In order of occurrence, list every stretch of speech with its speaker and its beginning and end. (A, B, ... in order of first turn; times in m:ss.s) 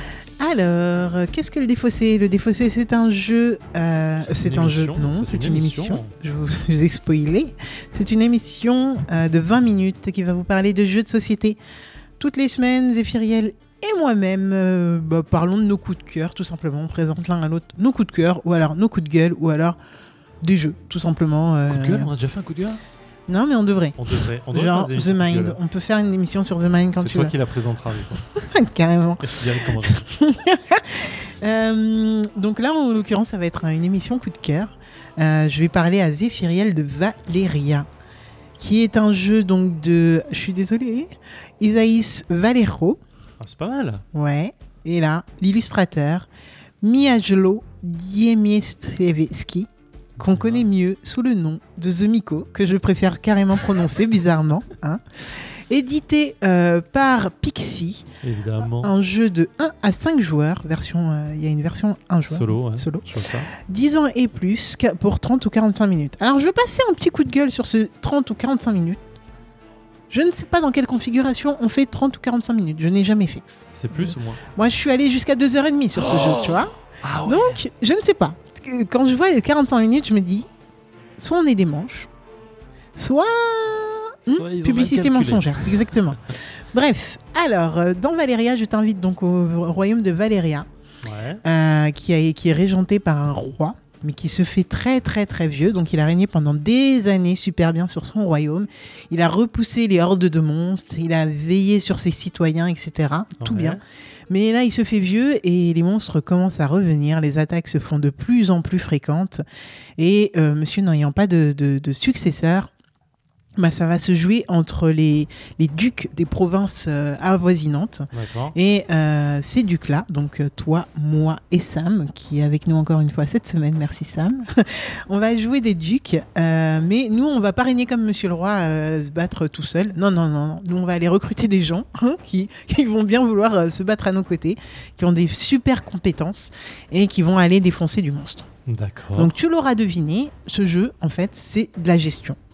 0:00.4-0:11.6 A
0:04.4-0:06.1 B
0:12.2-0:19.8 A
0:20.4-0:22.1 A
0:21.7-0:22.8 B
0:23.3-0:24.0 A
0:24.0-0:25.6 B
0:24.5-0:27.3 A
0:27.0-0:28.3 B
0:28.3-0:37.9 A
0:29.2-0:30.0 B
0:38.6-0:43.0 A
0:43.4-0:44.0 B
0:44.1-0:46.3 A
0:46.8-0:58.0 A
0:50.2-0:50.7 B
0:58.2-0:58.9 B
0:58.8-1:09.0 A
1:02.3-1:03.5 B
1:10.1-1:20.5 A
1:13.7-1:14.4 B
1:16.0-1:17.6 B
1:21.2-1:22.1 A
1:23.0-1:30.7 A
1:24.3-1:26.1 B
1:31.0-1:31.4 B
1:31.4-1:43.8 A
1:43.4-1:43.8 B
1:44.3-1:49.4 A
1:50.0-1:52.7 A
1:53.6-2:18.5 A
1:58.1-1:58.6 B
2:18.7-2:19.3 B
2:19.2-2:22.4 A